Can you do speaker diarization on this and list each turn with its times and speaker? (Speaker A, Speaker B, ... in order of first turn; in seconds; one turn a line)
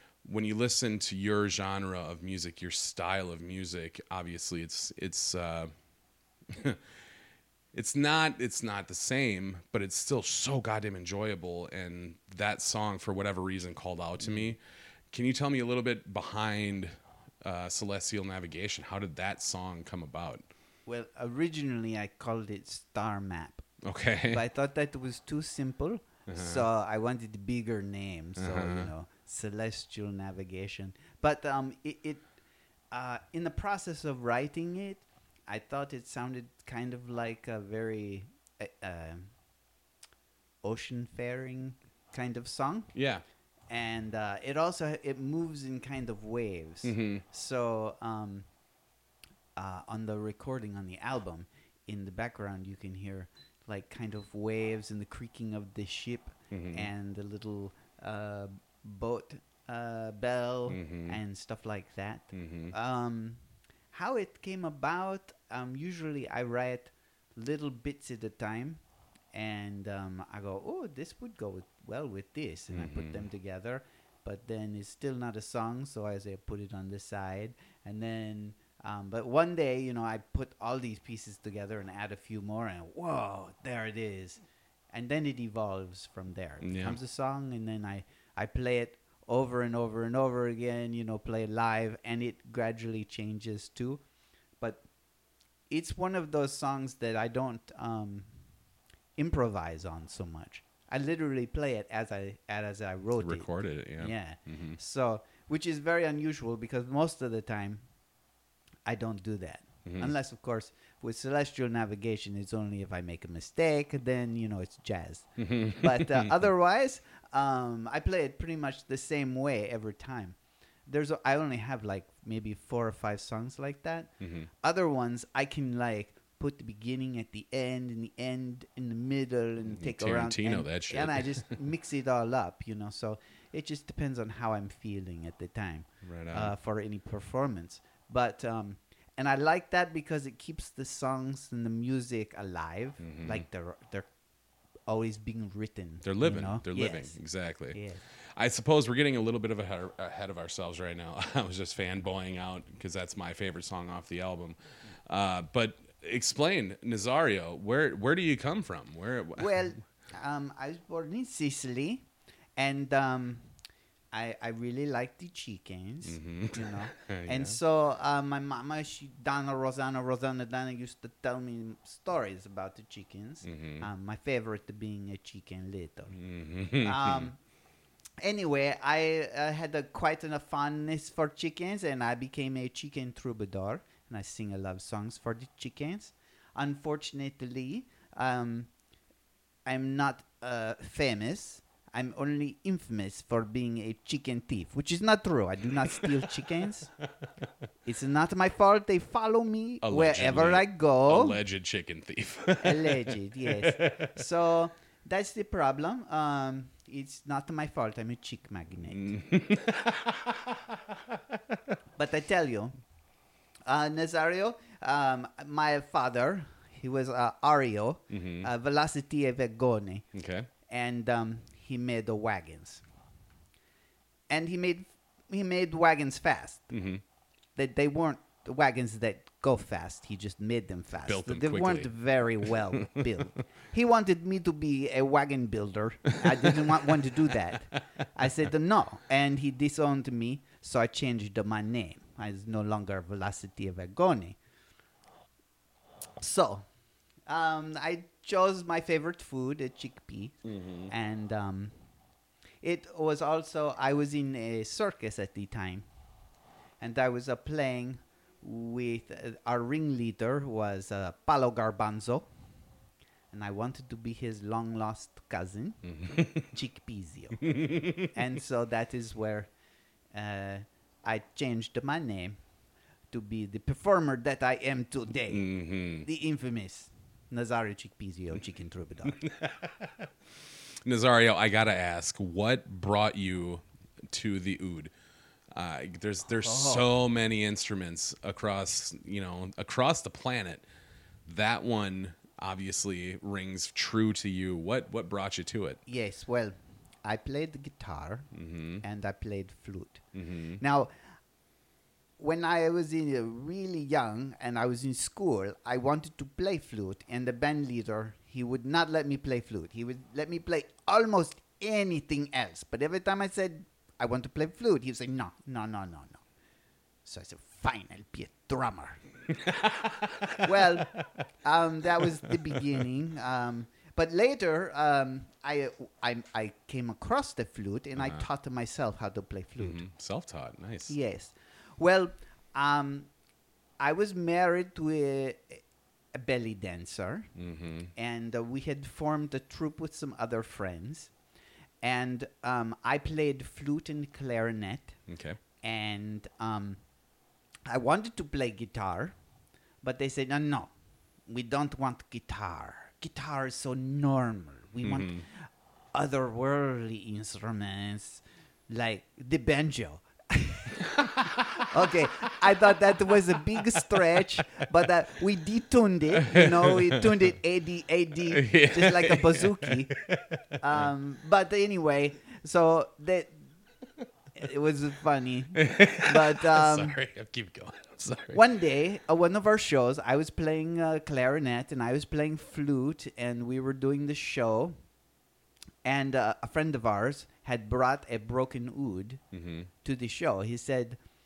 Speaker A: 0.2-5.7
Speaker A: 6.5-6.8
Speaker A: 7.7-14.6
Speaker B: 14.2-14.5
Speaker A: 15.1-20.5
Speaker B: 20.9-23.6
Speaker A: 23.8-24.4
Speaker B: 24.3-32.2
Speaker A: 26.3-26.7
Speaker A: 28.4-28.9
Speaker B: 32.9-39.3
Speaker B: 40.6-42.9
Speaker A: 42.9-43.2
Speaker B: 43.7-48.5
Speaker A: 46.8-47.2
Speaker B: 49.6-63.4
Speaker A: 56.5-56.9
Speaker A: 60.7-61.2
Speaker A: 62.3-62.7
Speaker B: 63.9-68.8
Speaker B: 69.3-94.0
Speaker A: 72.7-73.2
Speaker A: 86.6-87.0
Speaker B: 95.7-98.3
Speaker B: 99.2-107.8
Speaker A: 103.2-104.8
Speaker B: 108.8-144.1
Speaker A: 109.8-110.1
Speaker A: 115.4-116.4
Speaker A: 124.2-124.5
Speaker A: 129.7-131.6
Speaker A: 136.0-136.5
Speaker A: 143.0-143.4
Speaker B: 144.9-147.2
Speaker A: 146.0-147.8
Speaker B: 147.7-148.0
Speaker A: 148.3-159.7
Speaker B: 159.4-163.5
Speaker B: 164.1-176.2
Speaker A: 166.0-167.6
Speaker A: 173.4-173.9
Speaker A: 176.1-177.3
Speaker B: 176.8-177.4
Speaker B: 178.2-188.7
Speaker B: 189.7-196.9
Speaker A: 195.9-196.5
Speaker B: 197.8-201.4
Speaker A: 199.8-204.2
Speaker B: 202.6-209.1
Speaker A: 208.9-211.2
Speaker B: 212.0-212.7
Speaker B: 213.7-220.1
Speaker A: 218.1-218.5
Speaker A: 220.1-220.5
Speaker B: 220.7-222.8
Speaker B: 224.3-226.7
Speaker A: 226.7-227.0
Speaker B: 227.6-244.4
Speaker A: 231.1-231.9
Speaker A: 232.4-233.0
Speaker A: 236.2-236.7
Speaker B: 246.2-246.7
Speaker B: 247.3-250.4
Speaker A: 250.4-250.9
Speaker B: 250.9-251.7
Speaker B: 252.6-255.8
Speaker B: 256.8-262.3
Speaker B: 263.3-265.8
Speaker A: 265.9-266.5
Speaker B: 266.4-267.5
Speaker A: 267.4-268.1
Speaker B: 268.1-269.5
Speaker B: 270.1-272.4
Speaker B: 273.1-275.5
Speaker A: 275.3-276.1
Speaker B: 276.0-279.2
Speaker A: 279.2-280.1
Speaker A: 280.9-284.9
Speaker A: 285.5-290.6
Speaker B: 286.4-286.9
Speaker A: 291.2-295.8
Speaker B: 295.9-298.3
Speaker A: 298.3-298.8
Speaker B: 298.8-300.0
Speaker A: 300.1-300.6
Speaker B: 300.6-300.9
Speaker B: 302.2-316.2
Speaker B: 317.0-319.0
Speaker A: 319.3-321.0
Speaker B: 320.4-329.8
Speaker A: 322.2-322.8
Speaker A: 328.0-328.2
Speaker A: 329.6-330.9
Speaker B: 330.9-333.1
Speaker B: 333.8-335.6
Speaker B: 336.1-337.3
Speaker A: 337.4-337.9
Speaker B: 337.9-341.1
Speaker B: 341.8-345.0
Speaker A: 345.1-345.4
Speaker B: 345.6-346.8
Speaker B: 347.7-349.1
Speaker B: 349.8-350.7
Speaker B: 351.3-360.9
Speaker A: 354.8-355.2
Speaker A: 360.8-364.6
Speaker B: 361.7-369.9
Speaker A: 366.1-367.1
Speaker A: 368.3-370.9
Speaker B: 370.6-373.4
Speaker B: 374.4-377.0
Speaker A: 375.5-378.4
Speaker B: 378.3-384.8
Speaker B: 385.8-389.2
Speaker A: 389.3-389.7
Speaker B: 389.8-391.0